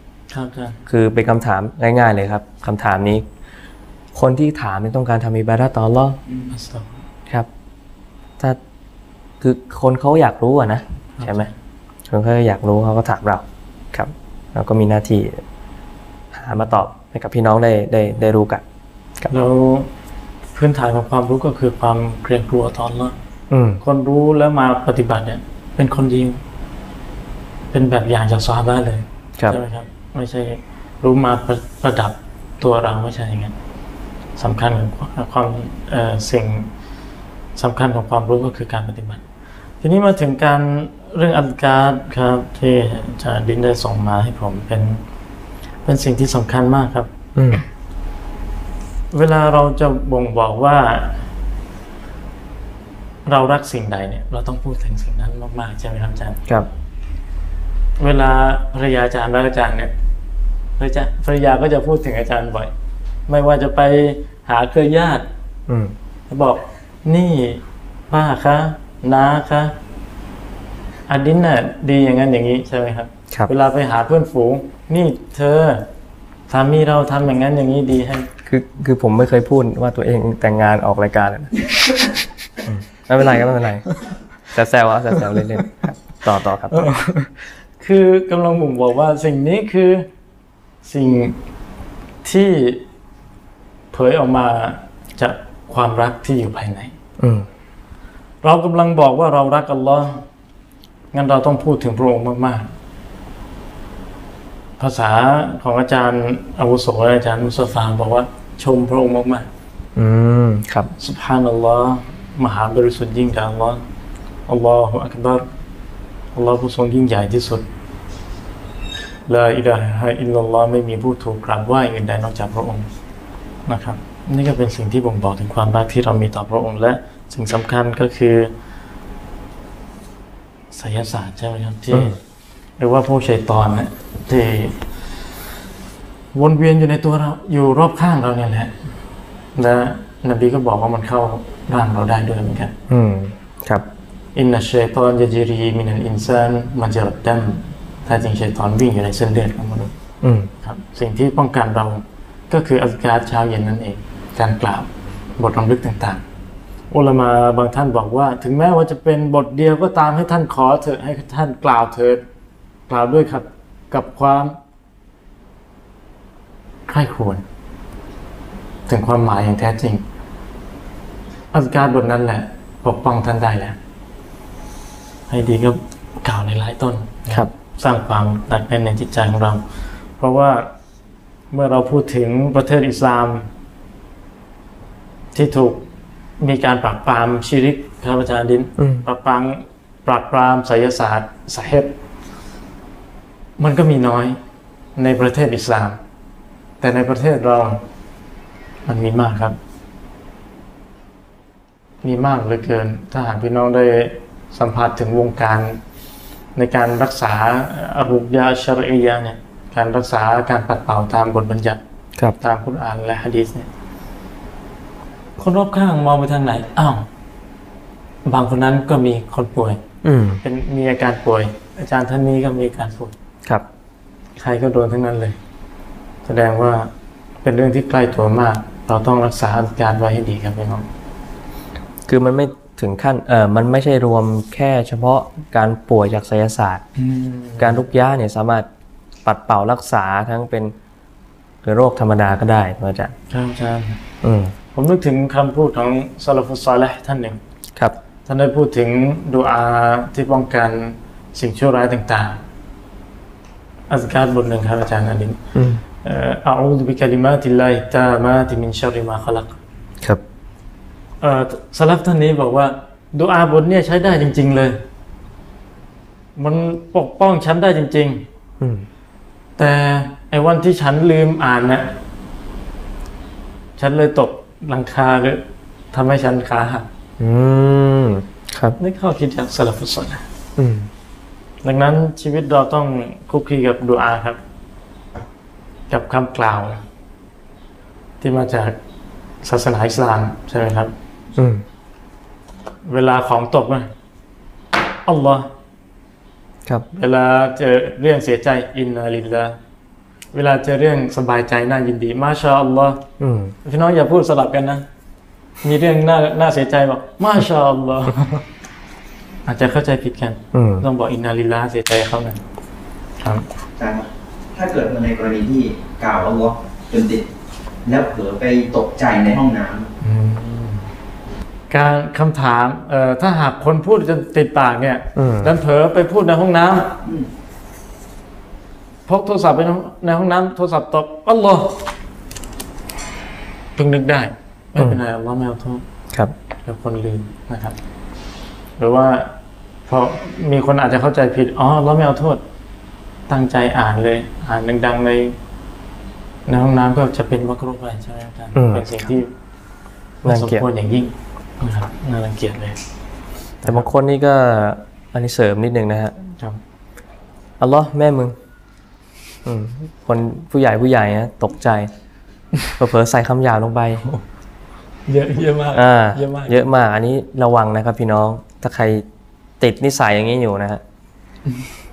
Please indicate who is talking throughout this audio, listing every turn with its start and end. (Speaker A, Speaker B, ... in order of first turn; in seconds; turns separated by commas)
Speaker A: 0.3-0.9, Speaker B: 0.9-3.2, Speaker B: 4.2-6.2, Speaker A: 6.3-7.0, Speaker B: 9.4-11.5, Speaker A: 11.2-11.5, Speaker B: 12.1-15.4, Speaker B: 16.3-18.6, Speaker A: 19.3-19.9, Speaker A: 20.5-23.2, Speaker B: 23.5-23.8, Speaker A: 23.8-26.4, Speaker A: 27.7-33.6, Speaker A: 34.4-36.7, Speaker A: 37.6-39.2, Speaker A: 39.8-45.0, Speaker A: 45.9-47.1, Speaker B: 47.4-47.6, Speaker A: 49.1-51.2, Speaker A: 53.3-56.4, Speaker A: 58.0-59.9, Speaker A: 60.8-62.7, Speaker A: 63.3-65.3, Speaker B: 65.7-65.9, Speaker A: 66.3-69.8, Speaker A: 71.1-75.9, Speaker A: 76.5-78.3, Speaker B: 78.5-84.0, Speaker B: 84.5-86.9, Speaker A: 86.7-90.1, Speaker A: 90.8-91.4, Speaker A: 92.2-92.8, Speaker A: 93.9-96.9, Speaker B: 97.2-97.5, Speaker A: 98.4-100.2, Speaker A: 101.1-102.7, Speaker A: 104.8-109.5, Speaker B: 110.0-110.9, Speaker A: 111.0-113.8, Speaker A: 114.5-115.5, Speaker A: 116.3-117.7, Speaker A: 119.3-122.9, Speaker A: 123.7-128.5, Speaker A: 130.7-132.2, Speaker A: 132.8-134.8, Speaker A: 136.3-138.7, Speaker A: 139.6-142.8, Speaker B: 142.9-143.9, Speaker A: 144.3-149.9, Speaker B: 150.2-150.5, Speaker A: 150.6-156.2, Speaker A: 156.9-162.2, Speaker A: 162.9-164.6, Speaker A: 166.9-167.4, Speaker A: 168.9-170.1, Speaker A: 171.5-173.8, Speaker A: 175.3-179.6, Speaker A: 180.2-180.7, Speaker A: 181.5-183.5, Speaker A: 185.3-185.9, Speaker A: 186.4-191.9, Speaker B: 188.8-189.1, Speaker A: 193.6-194.4, Speaker A: 195.0-196.0, Speaker A: 196.8-197.8, Speaker A: 198.9-199.6, Speaker A: 202.0-205.8, Speaker A: 206.6-211.8, Speaker A: 212.4-213.7, Speaker A: 215.4-217.1, Speaker A: 218.3-219.8, Speaker B: 220.0-220.4, Speaker A: 220.4-223.1, Speaker A: 224.4-225.4, Speaker A: 226.2-226.9, Speaker A: 227.4-230.9, Speaker B: 232.1-236.8, Speaker A: 237.0-237.8, Speaker B: 237.6-238.7, Speaker B: 239.3-240.7, Speaker B: 241.6-243.1, Speaker A: 243.3-244.0, Speaker B: 244.2-244.6, Speaker A: 244.7-247.4, Speaker A: 248.3-252.4, Speaker A: 253.9-255.4, Speaker B: 255.6-255.8, Speaker A: 256.0-259.6, Speaker A: 261.2-264.8, Speaker A: 266.4-268.3, Speaker B: 268.6-268.9, Speaker A: 269.6-272.0, Speaker A: 273.8-276.9, Speaker B: 277.2-278.8, Speaker A: 278.8-280.2, Speaker B: 280.6-280.9, Speaker A: 281.6-284.4, Speaker A: 285.9-286.8, Speaker A: 288.2-288.8, Speaker A: 289.4-290.9, Speaker B: 291.4-291.6, Speaker A: 292.9-293.9, Speaker A: 295.1-295.5, Speaker A: 296.9-299.6, Speaker A: 300.3-303.1, Speaker B: 303.2-303.6, Speaker A: 303.6-304.8, Speaker A: 305.6-308.5, Speaker A: 309.5-312.4, Speaker B: 310.5-310.9, Speaker A: 313.2-313.5, Speaker C: 313.8-317.2, Speaker C: 317.9-319.9, Speaker A: 320.0-320.9, Speaker A: 321.7-327.0, Speaker B: 325.2-325.5, Speaker A: 329.1-331.9, Speaker A: 333.8-335.9, Speaker A: 336.6-337.8, Speaker A: 338.8-342.4, Speaker A: 343.3-345.4, Speaker A: 346.5-349.3, Speaker B: 348.6-349.0, Speaker A: 350.2-352.8, Speaker B: 350.2-350.6, Speaker A: 353.6-353.9, Speaker B: 353.6-356.2, Speaker B: 357.6-358.4, Speaker B: 359.4-361.9, Speaker B: 362.8-364.1, Speaker A: 365.1-366.7, Speaker B: 365.7-369.1, Speaker B: 369.6-370.8